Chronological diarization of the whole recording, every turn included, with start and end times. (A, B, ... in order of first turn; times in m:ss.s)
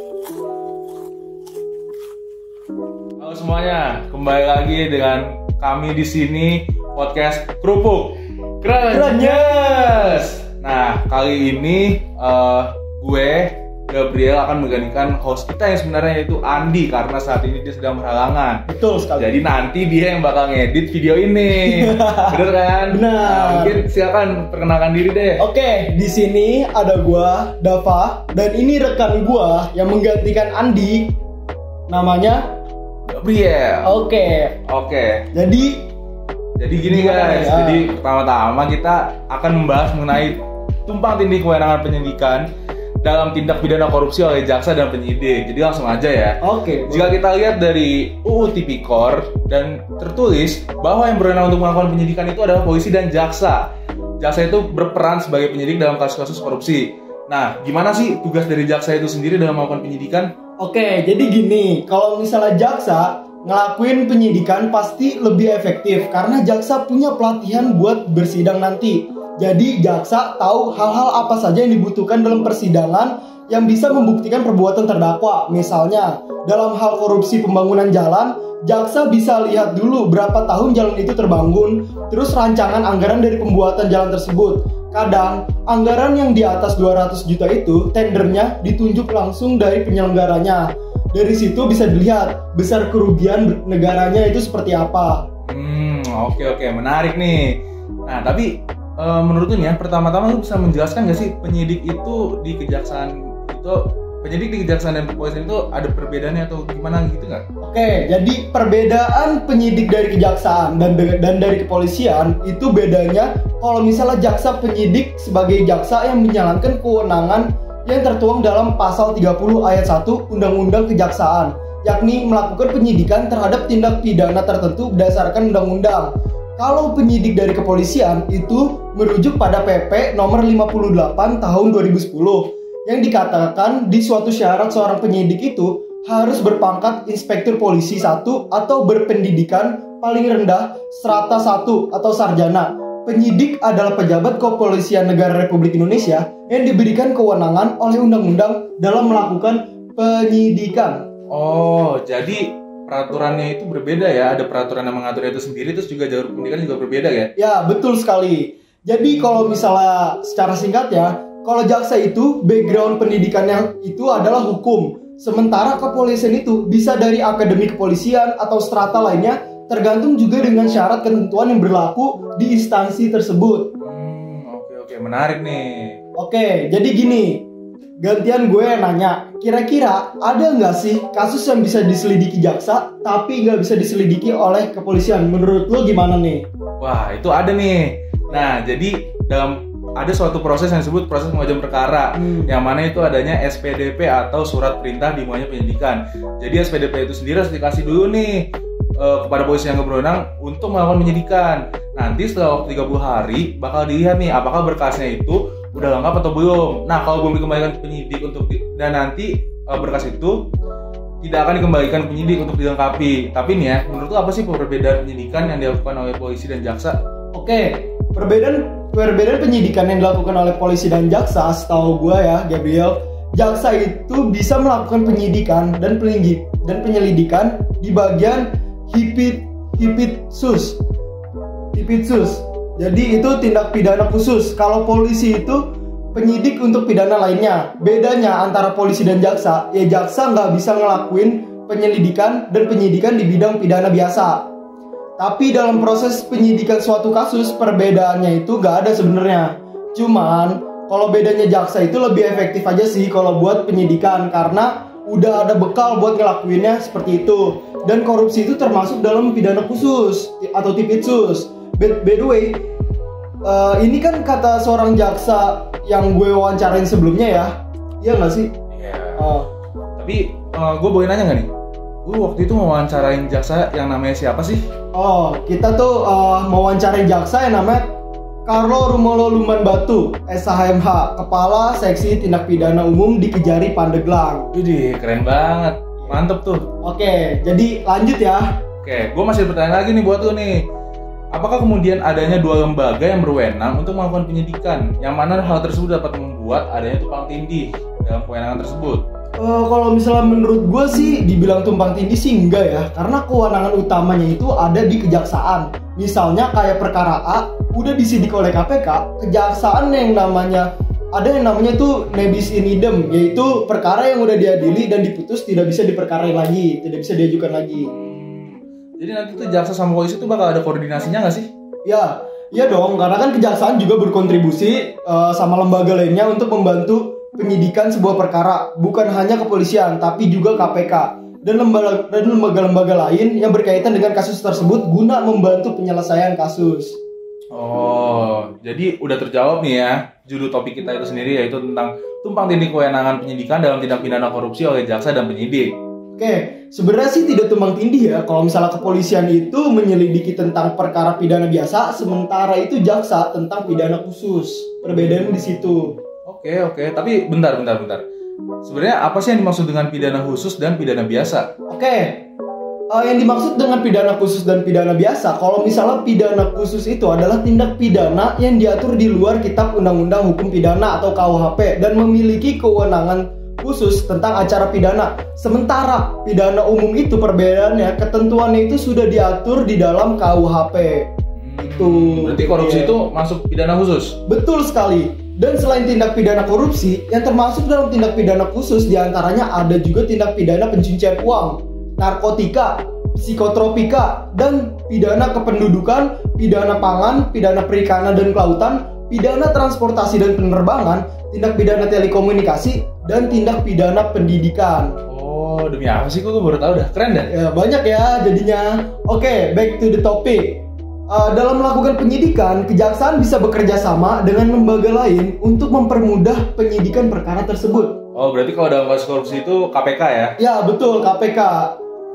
0:03.2-0:18.6 A
0:08.9-0:10.3 B
0:18.7-0:19.4 B
0:19.2-0:25.4 A
0:21.6-0:23.8 B
0:25.4-0:31.2 B
0:31.9-0:32.4 B
0:33.1-0:33.9 A
0:33.8-0:34.6 B
0:34.6-0:35.3 A
0:35.3-0:35.8 B
0:36.6-0:42.5 A
0:36.9-0:37.9 B
0:43.0-0:53.7 A
0:46.4-0:47.2 B
0:54.2-1:00.3 A
1:00.6-1:35.3 B
1:35.5-1:47.4 A
1:47.6-2:31.1 B
2:31.3-2:37.3 A
2:37.4-2:53.7 B
2:53.8-2:56.0 A
2:56.2-2:57.4 B
2:58.0-3:06.4 B
3:06.8-3:18.5 A
3:12.2-3:12.5 B
3:19.0-3:30.4 A
3:31.2-3:37.0 A
3:37.3-3:50.8 B
3:51.7-4:04.5 B
4:05.2-4:22.6 B
4:23.4-4:28.5 B
4:28.7-4:29.2 A
4:29.2-4:29.5 B
4:30.0-4:31.5 A
4:32.1-4:34.6 A
4:34.9-4:37.9 B
4:38.5-4:44.5 B
4:44.5-4:46.6 A
4:46.8-4:48.5 B
4:48.8-4:50.6 A
4:51.3-4:59.0 A
4:59.4-5:17.9 B
5:17.9-5:21.5 A
5:21.8-5:37.0 B
5:37.5-5:45.7 A
5:46.2-5:56.0 B
5:56.3-5:58.0 A
5:58.6-6:01.5 A
6:01.7-6:02.2 B
6:02.9-6:21.1 B
6:21.4-6:24.2 A
6:21.6-6:23.0 B
6:24.3-6:45.0 B
6:45.1-6:47.3 A
6:47.3-6:58.0 B
6:58.2-7:00.4 A
7:00.4-7:01.8 B